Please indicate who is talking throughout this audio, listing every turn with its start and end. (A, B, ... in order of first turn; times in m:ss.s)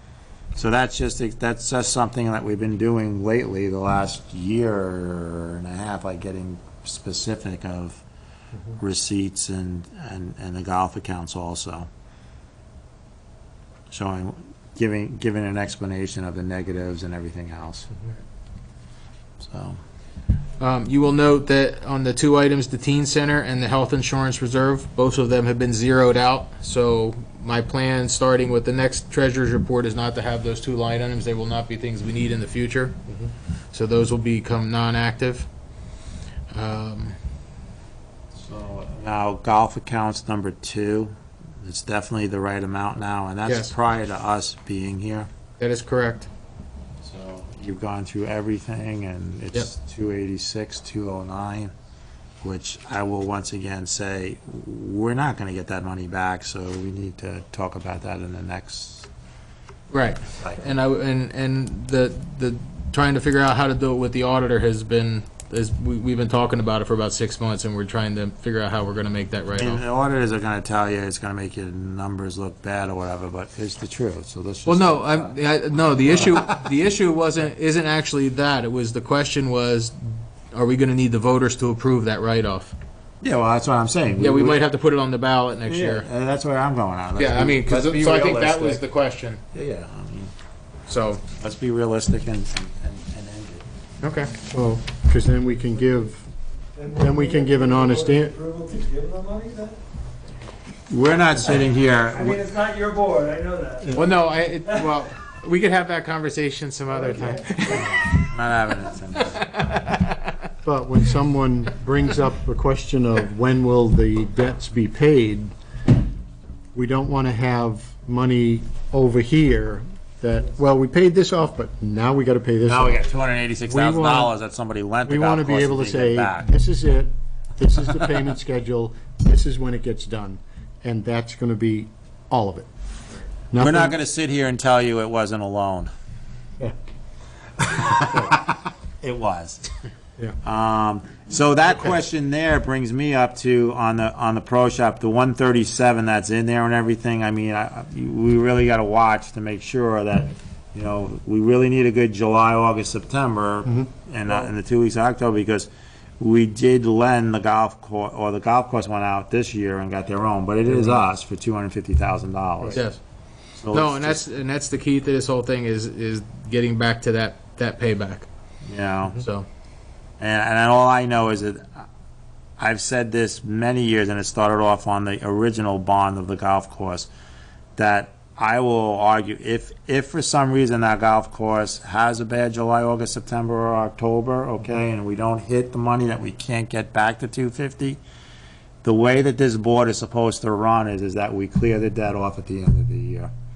0:00.5-0:08.0 A
0:08.7-0:11.9 A
0:13.9-0:17.9 A
0:19.4-0:19.8 A
0:20.6-0:33.0 B
0:33.7-0:35.5 B
0:36.5-0:37.2 B
0:38.3-0:45.3 A
0:43.4-0:43.7 B
0:45.6-0:46.3 B
0:47.0-0:51.7 A
0:52.4-0:59.1 A
0:59.9-1:09.8 B
1:00.4-1:00.7 A
1:09.6-1:15.3 A
1:14.6-1:22.7 B
1:16.0-1:16.6 A
1:23.2-1:24.6 A
1:24.2-1:26.1 B
1:25.6-1:28.8 A
1:27.2-1:29.4 B
1:29.5-1:30.3 A
1:30.9-1:31.2 B
1:31.3-1:33.6 A
1:34.0-1:34.3 B
1:34.5-1:36.2 C
1:36.8-1:39.8 D
1:36.9-1:38.4 C
1:40.9-1:42.5 A
1:42.2-1:44.9 D
1:43.9-1:48.2 B
1:47.8-1:49.4 A
1:49.1-1:50.3 B
1:50.6-1:55.5 C
1:56.7-2:03.0 C
2:02.6-2:06.5 A
2:03.6-2:04.3 C
2:05.0-2:12.7 C
2:13.5-2:13.9 C
2:13.6-2:15.9 A
2:17.7-2:19.7 A
2:17.8-2:18.4 C
2:20.4-2:42.8 A
2:42.7-2:43.0 B
2:43.6-2:44.2 A
2:43.7-2:48.3 B
2:48.6-2:49.2 A
2:49.1-2:49.5 B
2:50.2-2:51.8 A
2:52.6-2:57.1 A
2:57.8-3:08.0 A
3:08.8-3:13.3 A